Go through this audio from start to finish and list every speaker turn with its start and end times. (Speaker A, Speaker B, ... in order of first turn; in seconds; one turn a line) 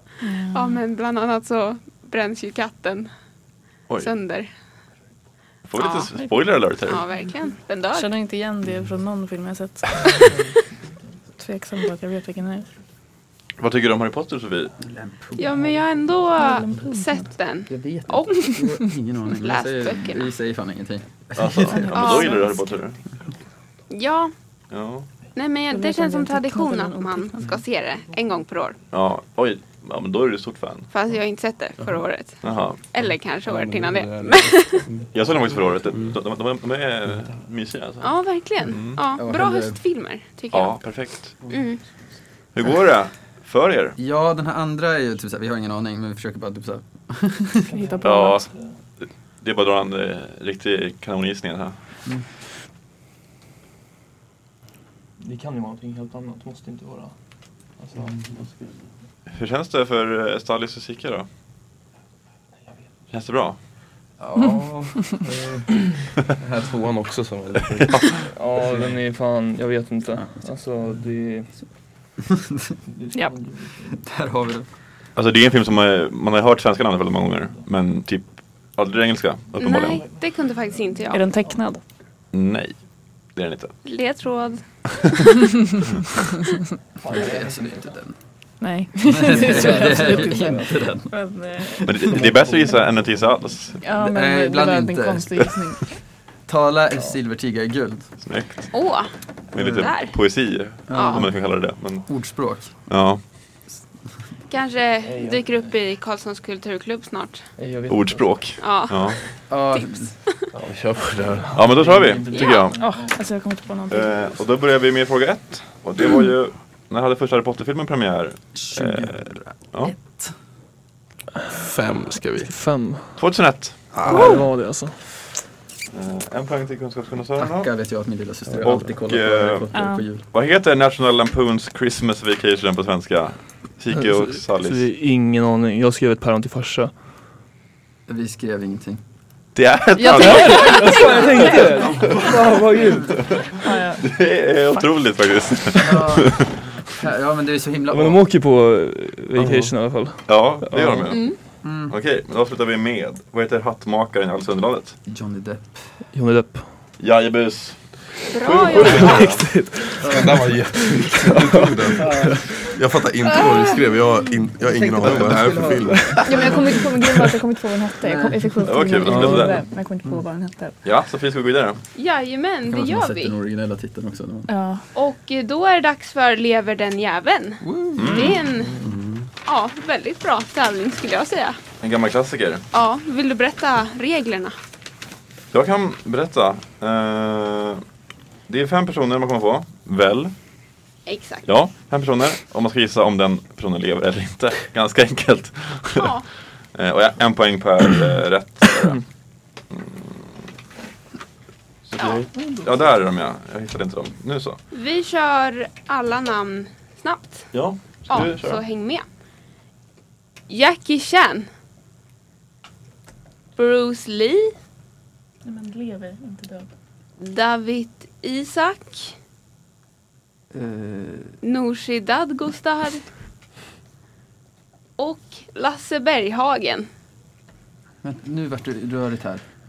Speaker A: 0.2-0.8
Speaker B: 0.5-3.1
Speaker B: 4.0-4.5
Speaker C: 5.7-7.1
Speaker B: 5.8-6.1
Speaker B: 6.8-8.1
Speaker A: 7.9-10.3
Speaker A: 11.4-12.7
Speaker C: 13.6-14.7
Speaker D: 14.8-16.6
Speaker B: 15.4-18.4
Speaker A: 16.4-17.3
Speaker D: 17.7-22.0
Speaker B: 19.4-20.3
Speaker C: 21.4-23.1
Speaker A: 21.7-22.7
Speaker B: 21.9-22.4
Speaker B: 23.9-24.3
Speaker C: 24.7-25.1
Speaker B: 25.3-28.8
Speaker A: 25.7-27.6
Speaker C: 28.9-30.9
Speaker B: 30.9-34.9
Speaker C: 32.4-32.9
Speaker E: 33.4-35.1
Speaker C: 35.1-39.0
Speaker B: 38.0-41.9
Speaker D: 39.2-39.8
Speaker C: 40.5-41.4
Speaker C: 42.5-44.0
Speaker D: 44.0-47.7
Speaker F: 47.7-48.7
Speaker A: 47.7-48.5
Speaker C: 48.0-48.5
Speaker C: 49.0-51.8
Speaker F: 55.2-57.1
Speaker F: 57.8-58.1
Speaker E: 58.0-58.6
Speaker C: 59.3-61.3
Speaker C: 63.1-63.6
Speaker D: 64.2-65.6
Speaker D: 66.4-66.7
Speaker E: 66.5-68.9
Speaker C: 67.8-68.2
Speaker F: 68.3-71.6
Speaker D: 72.3-72.7
Speaker F: 73.0-73.8
Speaker D: 73.9-74.7
Speaker C: 75.1-80.0
Speaker B: 79.6-81.3
Speaker A: 81.1-81.8
Speaker C: 82.3-83.8
Speaker B: 83.8-85.2
Speaker F: 87.0-87.9
Speaker D: 87.1-88.2
Speaker A: 88.6-92.0
Speaker D: 89.1-92.1
Speaker F: 89.3-90.7
Speaker C: 91.8-93.8
Speaker F: 92.1-93.1
Speaker A: 93.8-96.0
Speaker D: 94.0-95.3
Speaker D: 96.5-98.1
Speaker C: 98.2-98.8
Speaker B: 98.7-100.2
Speaker C: 99.5-103.2
Speaker D: 100.9-102.7
Speaker B: 100.9-101.3
Speaker B: 104.5-107.5
Speaker F: 105.0-105.6
Speaker F: 107.6-108.4
Speaker C: 107.9-109.2
Speaker B: 108.6-110.3
Speaker D: 109.5-110.1
Speaker E: 110.6-111.8
Speaker F: 111.3-113.2
Speaker C: 111.5-112.8
Speaker B: 112.3-112.7
Speaker A: 112.7-114.3
Speaker C: 113.9-120.0
Speaker D: 118.5-120.3
Speaker E: 121.5-122.5
Speaker F: 122.4-123.2
Speaker C: 123.2-124.1
Speaker E: 123.9-124.5
Speaker F: 123.9-125.1
Speaker A: 124.1-124.5
Speaker C: 125.9-127.7
Speaker D: 127.4-130.2
Speaker E: 128.5-128.8
Speaker C: 128.6-129.7
Speaker A: 129.7-130.1
Speaker C: 130.2-134.9
Speaker F: 133.9-136.9
Speaker D: 138.1-139.0
Speaker C: 139.6-141.2
Speaker A: 139.9-142.2
Speaker F: 140.1-143.2
Speaker C: 143.2-146.9
Speaker A: 143.6-144.1
Speaker A: 144.7-145.0
Speaker D: 145.8-148.2
Speaker F: 147.9-151.3
Speaker E: 149.4-149.7
Speaker C: 150.3-154.9
Speaker B: 151.1-151.4
Speaker D: 151.6-151.9
Speaker D: 155.1-155.9
Speaker F: 156.1-156.7
Speaker C: 157.0-159.5
Speaker B: 158.3-159.3
Speaker F: 158.7-162.4
Speaker D: 160.0-160.3
Speaker E: 160.1-166.2
Speaker D: 162.0-162.4
Speaker A: 163.4-163.7
Speaker D: 164.6-166.7
Speaker F: 165.9-166.2
Speaker A: 166.2-170.8
Speaker D: 168.0-168.8
Speaker C: 168.6-169.6
Speaker F: 169.0-169.6
Speaker C: 170.8-171.8
Speaker B: 171.9-173.4
Speaker D: 172.7-174.5
Speaker A: 174.5-174.8
Speaker B: 174.9-178.8
Speaker D: 177.6-178.9
Speaker C: 177.9-178.4
Speaker E: 178.8-179.3
Speaker B: 179.4-181.6
Speaker C: 181.8-182.6
Speaker B: 182.7-184.6
Speaker C: 185.5-187.8
Speaker C: 188.5-190.3
Speaker B: 191.1-191.5
Speaker C: 191.4-196.1
Speaker B: 195.9-196.3
Speaker C: 196.7-199.0
Speaker C: 199.7-200.2
Speaker C: 201.8-204.6
Speaker B: 202.0-202.2
Speaker F: 202.3-202.7
Speaker B: 204.7-209.1
Speaker C: 207.5-208.6
Speaker B: 210.5-211.5
Speaker B: 213.6-214.5
Speaker A: 215.4-216.7
Speaker B: 217.2-219.1
Speaker D: 220.5-221.3
Speaker B: 221.4-223.0
Speaker B: 225.0-226.9
Speaker D: 228.0-229.4